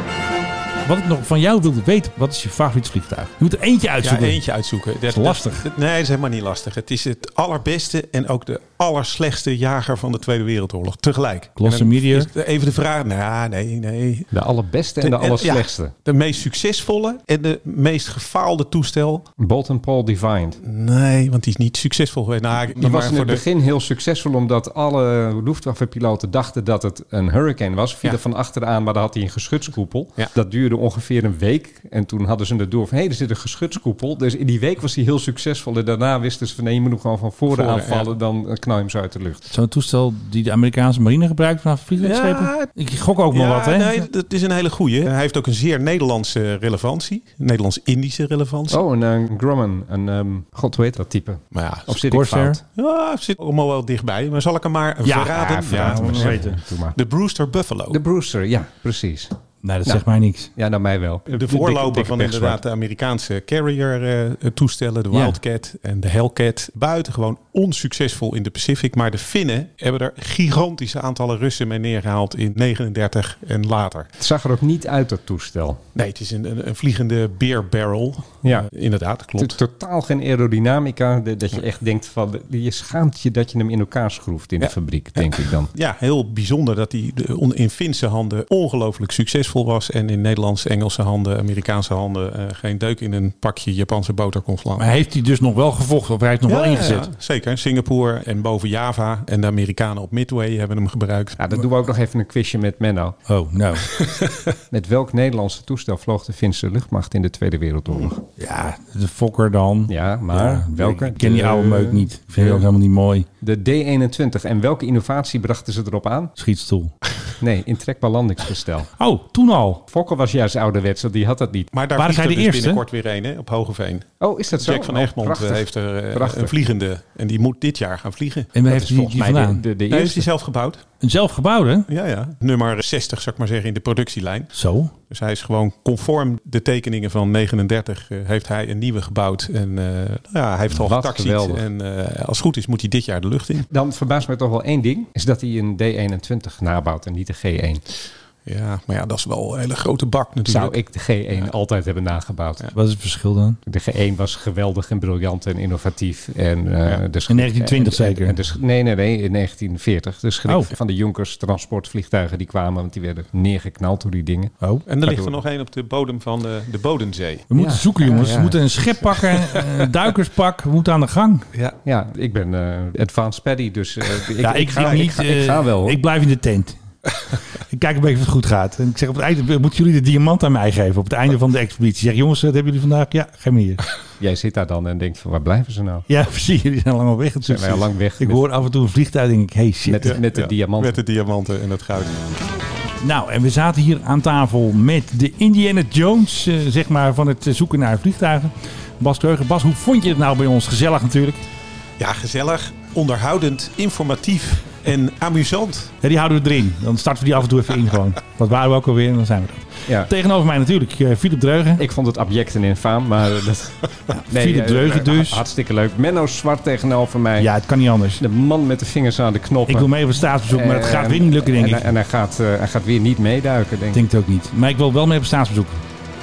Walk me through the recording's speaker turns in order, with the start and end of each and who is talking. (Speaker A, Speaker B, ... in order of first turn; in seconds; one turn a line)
Speaker A: 0.8-4.4
Speaker B: 4.0-14.3
Speaker A: 5.1-5.6
Speaker A: 11.6-12.3
Speaker C: 14.3-15.9
Speaker B: 15.0-19.3
Speaker C: 19.4-20.6
Speaker B: 20.6-23.4
Speaker C: 22.7-39.5
Speaker B: 37.5-38.1
Speaker A: 39.5-44.1
Speaker B: 42.0-42.7
Speaker B: 43.3-48.8
Speaker C: 48.7-52.6
Speaker B: 51.5-52.0
Speaker A: 52.0-52.6
Speaker B: 52.7-58.0
Speaker A: 55.0-56.6
Speaker C: 55.3-57.0
Speaker C: 57.9-59.3
Speaker A: 59.6-60.5
Speaker C: 60.5-62.6
Speaker B: 61.3-74.1
Speaker A: 65.1-65.4
Speaker C: 74.2-75.8
Speaker B: 75.9-79.6
Speaker C: 78.4-78.7
Speaker C: 79.4-85.7
Speaker B: 84.6-94.9
Speaker A: 94.8-97.1
Speaker B: 96.5-101.4
Speaker C: 101.4-103.2
Speaker A: 103.3-103.9
Speaker B: 104.0-104.5
Speaker C: 104.7-108.2
Speaker A: 108.4-113.3
Speaker C: 109.9-112.6
Speaker C: 113.4-116.3
Speaker A: 116.4-116.9
Speaker C: 117.4-118.9
Speaker A: 119.0-119.8
Speaker C: 119.9-121.7
Speaker B: 121.7-128.8
Speaker A: 122.0-122.8
Speaker C: 124.2-126.5
Speaker A: 128.5-129.6
Speaker C: 128.7-130.3
Speaker B: 129.9-130.8
Speaker A: 131.0-131.9
Speaker B: 131.9-134.5
Speaker A: 134.5-134.9
Speaker B: 135.1-143.7
Speaker C: 140.7-141.6
Speaker C: 143.7-147.8
Speaker B: 148.4-150.8
Speaker C: 150.4-152.7
Speaker A: 152.7-153.6
Speaker C: 153.7-165.3
Speaker A: 157.3-158.3
Speaker A: 164.6-164.9
Speaker B: 164.8-167.4
Speaker A: 167.5-171.5
Speaker C: 167.5-168.6
Speaker C: 171.8-176.0
Speaker A: 174.4-176.8
Speaker B: 174.8-175.1
Speaker A: 177.7-183.8
Speaker C: 184.2-186.1
Speaker A: 186.1-190.2
Speaker C: 187.4-188.4
Speaker C: 189.9-190.9
Speaker B: 190.0-192.2
Speaker A: 193.0-201.4
Speaker B: 202.0-205.9
Speaker A: 206.0-211.8
Speaker C: 211.8-217.5
Speaker A: 214.1-215.4
Speaker A: 217.4-218.2
Speaker C: 218.2-219.9
Speaker A: 219.7-221.9
Speaker C: 220.4-224.0
Speaker A: 223.9-225.8